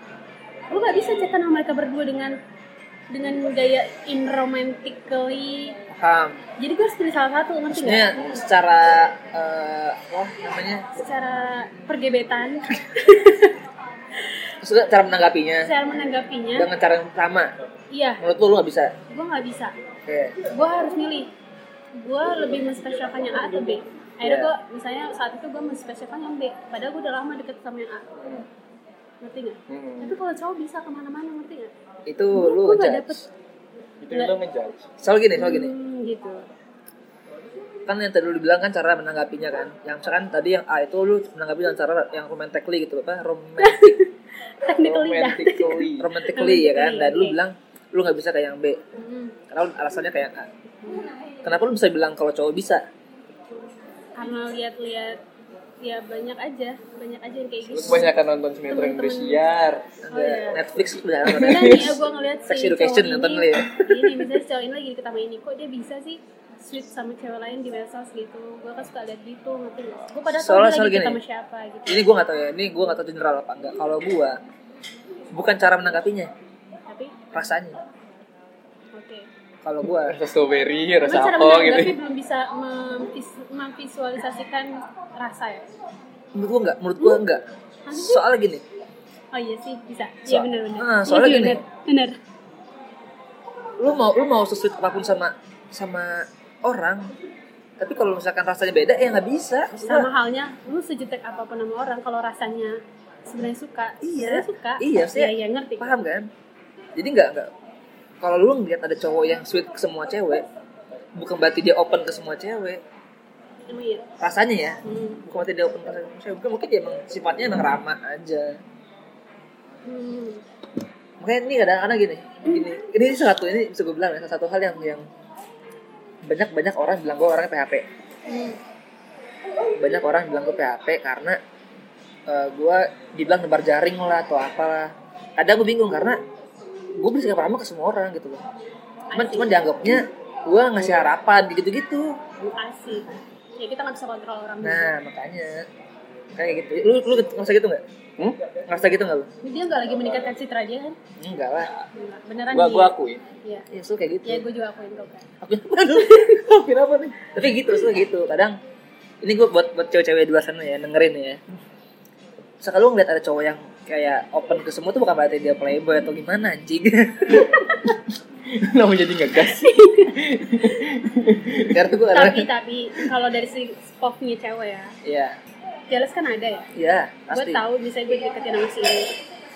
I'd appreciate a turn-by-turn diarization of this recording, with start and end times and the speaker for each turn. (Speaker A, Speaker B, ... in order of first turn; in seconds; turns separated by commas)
Speaker A: 0.7-2.4, Speaker A: 3.1-5.8, Speaker B: 5.9-6.4, Speaker A: 6.6-8.3, Speaker B: 7.7-10.9, Speaker A: 10.9-13.6, Speaker B: 14.6-15.7, Speaker A: 15.6-16.7, Speaker B: 16.6-17.5, Speaker A: 17.9-18.2, Speaker B: 18.2-18.9, Speaker A: 19.1-19.8, Speaker B: 20.1-20.4, Speaker A: 20.4-21.3, Speaker A: 21.9-28.1, Speaker B: 24.2-24.5, Speaker C: 28.1-28.5, Speaker A: 29.2-31.7, Speaker C: 29.7-30.2, Speaker B: 32.1-33.2, Speaker A: 32.3-33.3, Speaker C: 34.0-34.9, Speaker B: 35.0-35.7, Speaker A: 35.4-36.5, Speaker B: 37.9-44.0, Speaker A: 43.6-47.4, Speaker C: 44.8-46.1, Speaker B: 46.0-48.8, Speaker A: 49.0-49.4, Speaker B: 49.5-50.5, Speaker B: 51.4-52.9, Speaker A: 54.2-55.2, Speaker A: 55.8-58.1, Speaker C: 57.7-59.9, Speaker A: 58.7-59.4, Speaker B: 60.0-62.0, Speaker A: 60.1-60.6, Speaker C: 61.3-61.8, Speaker A: 61.3-72.0, Speaker B: 62.5-64.2, Speaker B: 70.3-71.2, Speaker B: 71.9-74.4, Speaker B: 75.3-76.3, Speaker A: 76.9-77.2, Speaker B: 77.3-77.8, Speaker A: 78.9-79.3, Speaker B: 79.6-80.2, Speaker C: 79.9-82.0, Speaker A: 81.0-85.6, Speaker B: 86.3-88.6, Speaker A: 87.9-88.2, Speaker A: 89.3-92.2, Speaker B: 90.3-91.6, Speaker B: 93.8-97.1, Speaker B: 97.8-100.1, Speaker A: 99.8-106.0, Speaker B: 104.0-106.3, Speaker B: 107.0-107.5, Speaker B: 108.2-110.5, Speaker B: 111.1-112.8, Speaker A: 113.7-114.1, Speaker B: 114.2-118.6, Speaker A: 114.8-115.2, Speaker A: 119.8-120.4, Speaker B: 121.2-125.0, Speaker B: 126.3-127.9, Speaker A: 128.3-128.6, Speaker B: 129.8-131.4, Speaker B: 132.3-136.2, Speaker B: 136.9-138.4, Speaker A: 139.1-139.6, Speaker B: 139.1-142.2, Speaker A: 142.4-144.9, Speaker B: 144.6-145.7, Speaker B: 146.3-147.8, Speaker C: 148.2-148.5, Speaker B: 148.7-149.3, Speaker A: 149.4-151.0, Speaker B: 151.2-151.7, Speaker A: 151.9-153.7, Speaker C: 152.5-153.2, Speaker B: 153.7-154.4, Speaker A: 154.2-155.3, Speaker B: 155.4-158.6, Speaker A: 156.0-156.3, Speaker B: 159.2-161.4, Speaker B: 162.6-167.6, Speaker A: 167.4-167.9, Speaker C: 168.4-171.9, Speaker A: 169.4-170.2, Speaker B: 171.7-172.5, Speaker A: 172.1-174.9, Speaker B: 175.0-175.4, Speaker A: 175.9-176.7, Speaker B: 176.8-177.6, Speaker A: 177.3-179.1